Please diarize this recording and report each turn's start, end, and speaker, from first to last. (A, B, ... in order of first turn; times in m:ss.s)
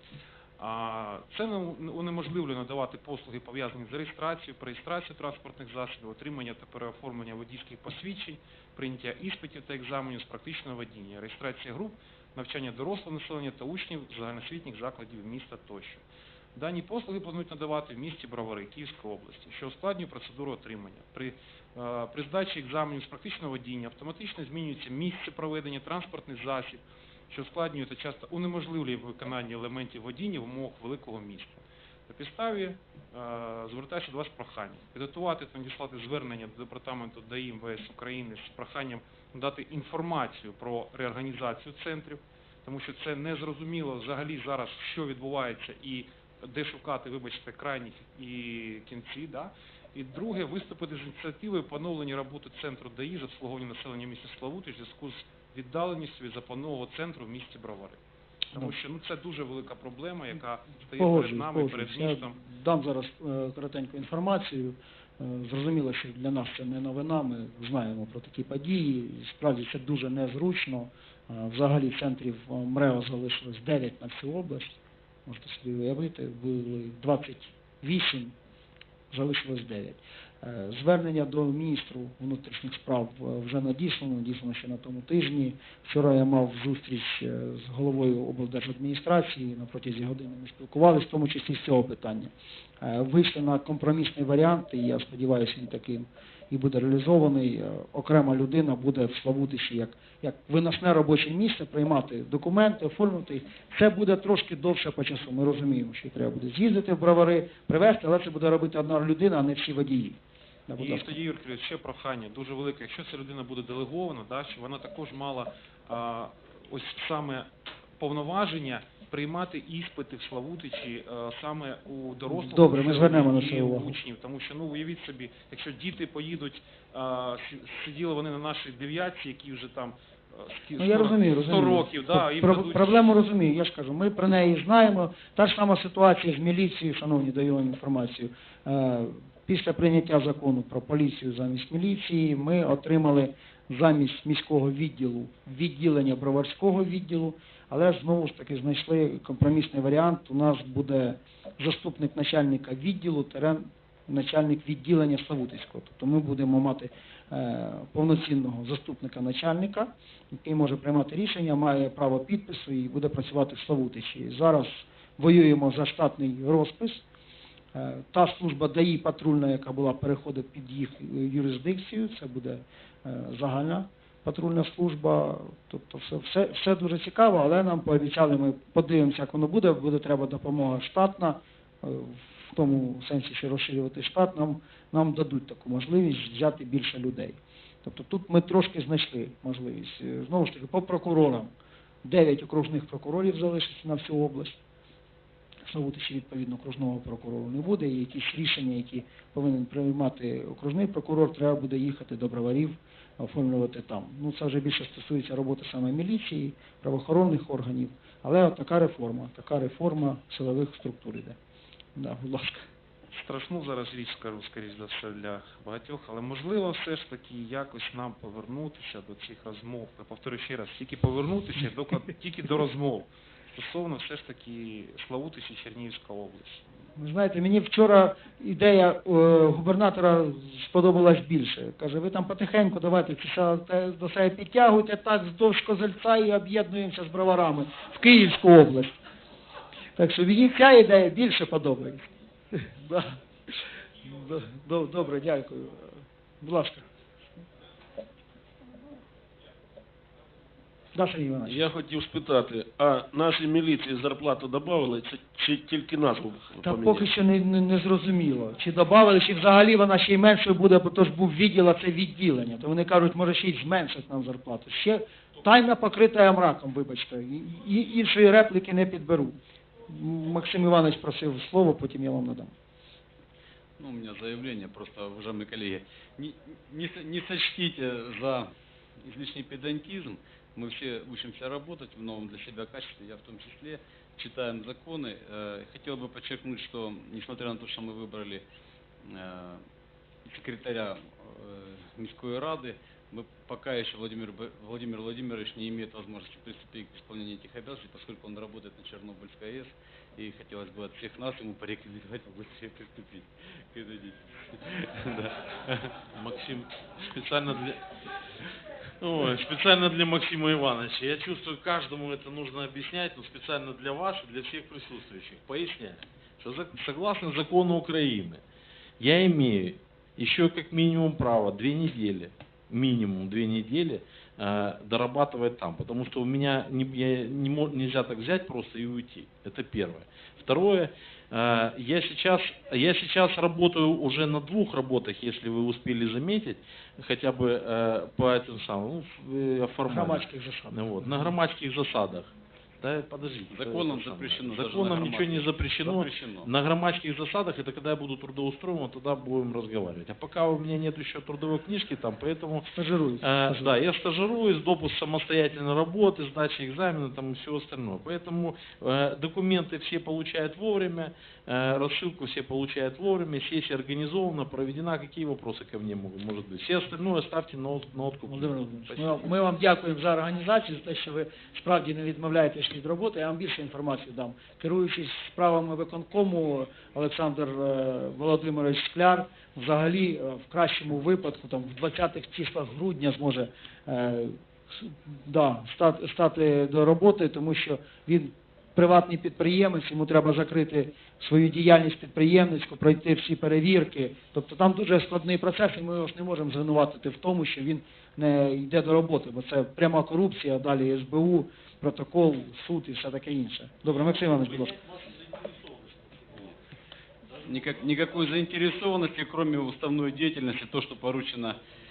0:00.6-0:16.0 A
0:16.5-1:02.4 A
1:00.9-1:18.4 B
1:19.1-1:51.2 B
1:50.8-1:57.5 A
1:58.0-2:13.0 A
2:02.2-2:04.0 B
2:10.8-2:47.0 B
2:47.7-3:11.5 B
3:12.0-3:14.6 B
3:15.6-3:31.4 B
3:31.9-3:32.7 B
3:33.1-3:46.6 A
3:47.0-3:59.0 B
4:00.0-4:06.9 B
4:10.9-4:11.6 B
4:11.4-4:17.1 C
4:16.6-4:32.5 B
4:33.8-4:48.4 D
4:49.0-4:49.6 D
4:50.2-5:05.8 D
5:05.1-5:07.8 E
5:09.0-5:18.4 E
5:19.0-5:52.7 E
5:39.8-5:41.3 B
5:43.5-5:46.5 D
5:52.7-5:53.8 B
5:53.2-6:09.3 E
6:08.2-6:44.8 B
6:43.9-6:46.6 E
6:47.2-6:48.6 E
6:47.4-6:51.6 D